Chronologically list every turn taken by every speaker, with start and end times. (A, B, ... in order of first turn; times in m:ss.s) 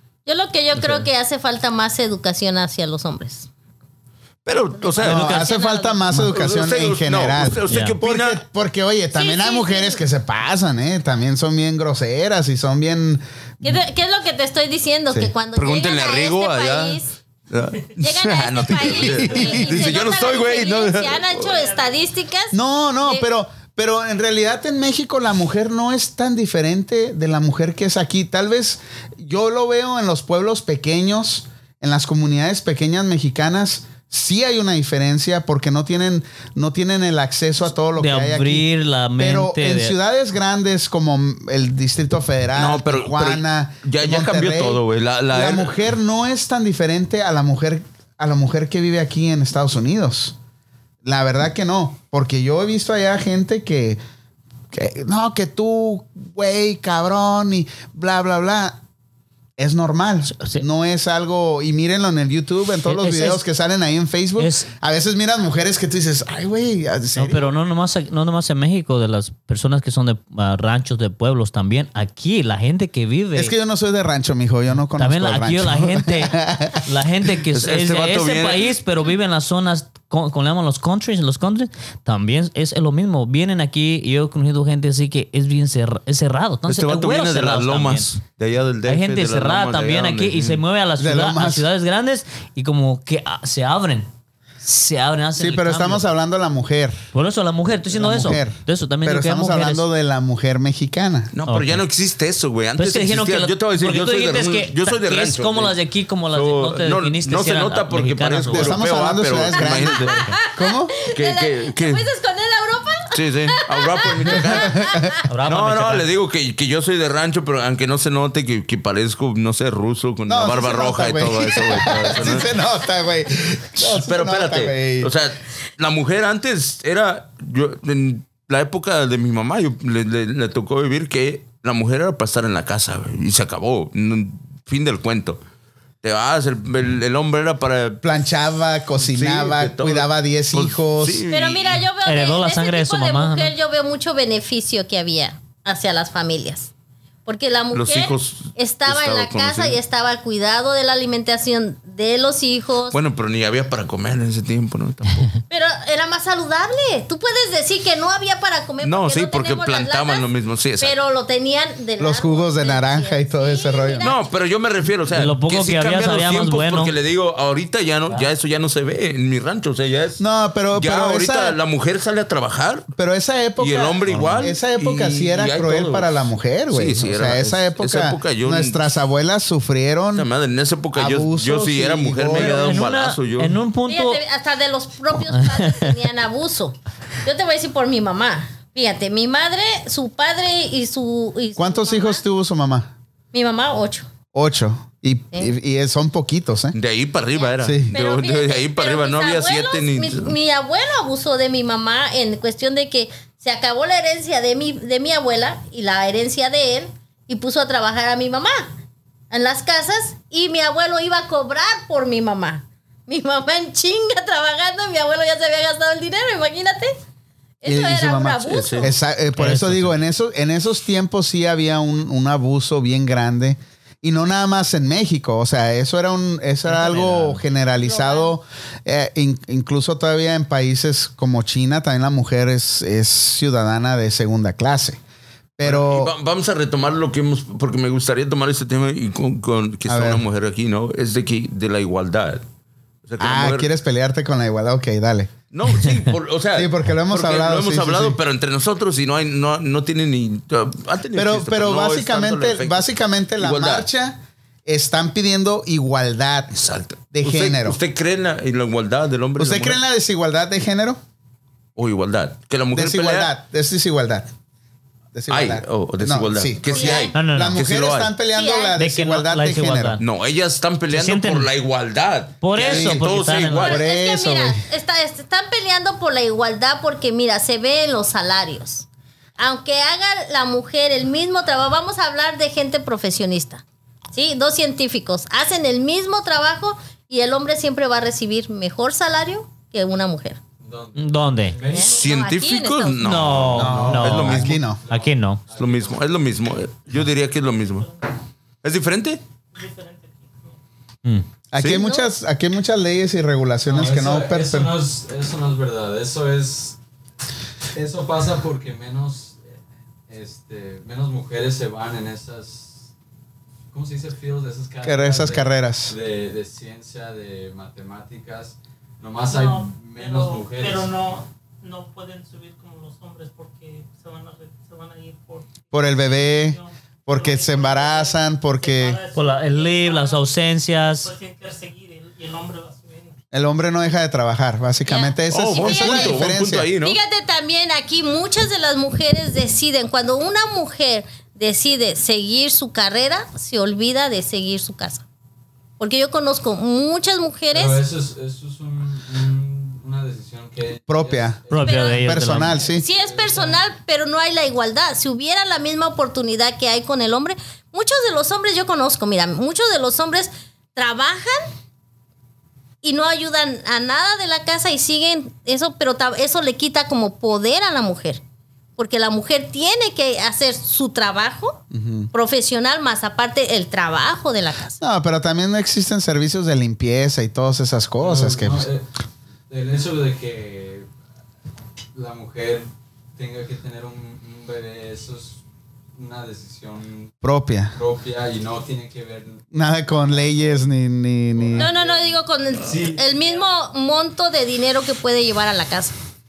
0:00.2-0:03.5 A
0:04.4-0:05.5 B
0:04.7-0:06.1 A
0:05.0-0:13.8 C
0:06.1-0:08.4 B
0:07.7-0:08.0 D
0:09.1-0:10.0 A
0:13.6-0:17.1 A
0:15.5-0:21.6 B
0:18.0-0:23.2 A
0:19.0-0:19.5 C
0:22.5-0:50.4 C
0:37.9-0:40.0 D
0:42.6-0:45.8 B
0:51.0-0:54.0 C
0:54.7-0:58.8 C
0:59.6-1:07.4 C
1:02.8-1:03.4 D
1:04.4-1:04.7 D
1:07.2-1:13.5 D
1:13.3-1:16.9 C
1:15.0-1:28.1 D
1:17.5-1:18.8 B
1:26.7-1:30.6 B
1:28.8-1:34.1 D
1:31.0-1:31.7 C
1:34.6-1:36.0 D
1:35.4-1:37.0 C
1:37.1-1:39.8 D
1:37.9-1:41.3 C
1:41.3-1:45.8 B
1:41.5-1:41.8 D
1:42.8-1:48.9 D
1:46.3-1:50.3 B
1:48.5-1:50.9 C
1:49.5-1:55.1 A
1:51.1-1:52.0 B
1:53.1-1:54.8 B
1:54.3-1:55.1 C
1:55.3-1:56.1 D
1:55.4-2:02.5 B
2:00.3-2:05.1 C
2:03.8-2:15.4 B
2:16.0-2:18.0 B
2:18.0-2:21.2 C
2:19.0-2:21.8 B
2:21.3-2:26.7 A
2:22.0-2:23.5 D
2:27.2-2:33.0 A
2:27.7-2:29.8 B
2:32.9-2:35.4 B
2:35.5-2:40.2 A
2:38.8-2:40.9 B
2:40.8-2:44.2 A
2:42.0-2:44.1 C
2:44.0-2:50.2 B
2:45.1-2:46.9 D
2:50.2-2:51.6 C
2:50.7-2:52.9 B
2:52.9-3:00.3 C
2:53.6-2:58.8 B
2:54.1-2:54.5 D
3:00.1-3:03.6 B
3:00.9-3:02.8 C
3:02.3-3:04.2 D
3:03.9-3:12.2 A
3:05.3-3:05.9 D
3:11.6-3:12.9 C
3:13.3-3:14.1 A
3:14.3-3:16.8 C
3:16.7-3:20.3 B
3:17.6-3:17.9 C
3:17.9-3:28.7 A
3:29.3-3:37.0 A
3:37.6-3:38.9 A
3:37.6-3:55.0 C
3:38.5-3:38.9 B
3:39.4-3:40.0 D
3:46.6-3:47.4 D
3:47.8-3:48.3 A
3:55.6-3:56.1 C
3:55.6-4:02.4 B
3:59.8-4:00.2 C
4:03.0-4:03.7 B
4:03.2-4:05.3 C
4:05.5-4:13.8 B
4:06.5-4:08.2 C
4:11.1-4:17.8 C
4:16.5-4:19.8 B
4:19.4-4:21.0 C
4:21.8-4:23.3 B
4:22.7-4:24.3 C
4:25.1-4:30.0 C
4:25.3-4:28.1 B
4:26.6-4:27.2 A
4:27.1-4:27.6 D
4:28.3-4:28.8 A
4:28.8-4:30.0 D
4:30.0-4:33.8 B
4:30.9-4:31.5 D
4:32.4-4:33.8 D
4:32.6-4:33.0 C
4:33.6-4:38.8 A
4:33.6-4:34.6 C
4:39.4-4:50.4 A
4:50.6-4:52.1 E
4:51.0-4:51.6 D
4:51.6-4:53.2 A
4:51.8-4:54.6 B
4:53.0-4:55.4 D
4:53.5-4:54.8 C
4:53.6-4:54.1 E
4:54.6-4:56.0 E
4:55.6-4:57.9 B
4:58.6-4:59.2 B
4:59.6-5:00.6 F
5:01.5-5:04.7 C
5:01.7-5:02.1 A
5:03.6-5:06.8 E
5:07.7-5:09.5 E
5:10.1-5:12.9 E
5:13.7-5:20.9 E
5:14.8-5:15.9 C
5:19.3-5:25.5 F
5:25.7-5:29.0 C
5:26.3-5:30.3 F
5:29.1-5:31.1 D
5:31.0-5:33.2 F
5:33.3-5:36.7 C
5:34.8-5:45.0 A
5:35.3-5:37.0 B
5:45.8-5:47.8 A
5:47.5-5:53.7 E
5:50.9-5:51.4 C
5:51.5-5:52.6 D
5:51.5-5:52.0 A
5:52.0-5:52.8 C
5:52.7-6:01.5 A
6:02.8-6:08.2 A
6:08.8-6:11.6 A
6:11.7-6:12.1 C
6:12.1-6:14.8 A
6:14.8-6:18.7 C
6:18.0-6:18.8 E
6:19.5-6:20.9 E
6:21.9-6:25.4 E
6:25.9-6:27.1 E
6:27.2-6:27.8 C
6:27.7-6:29.4 E
6:29.5-6:31.7 C
6:31.3-6:33.4 E
6:31.6-6:36.0 A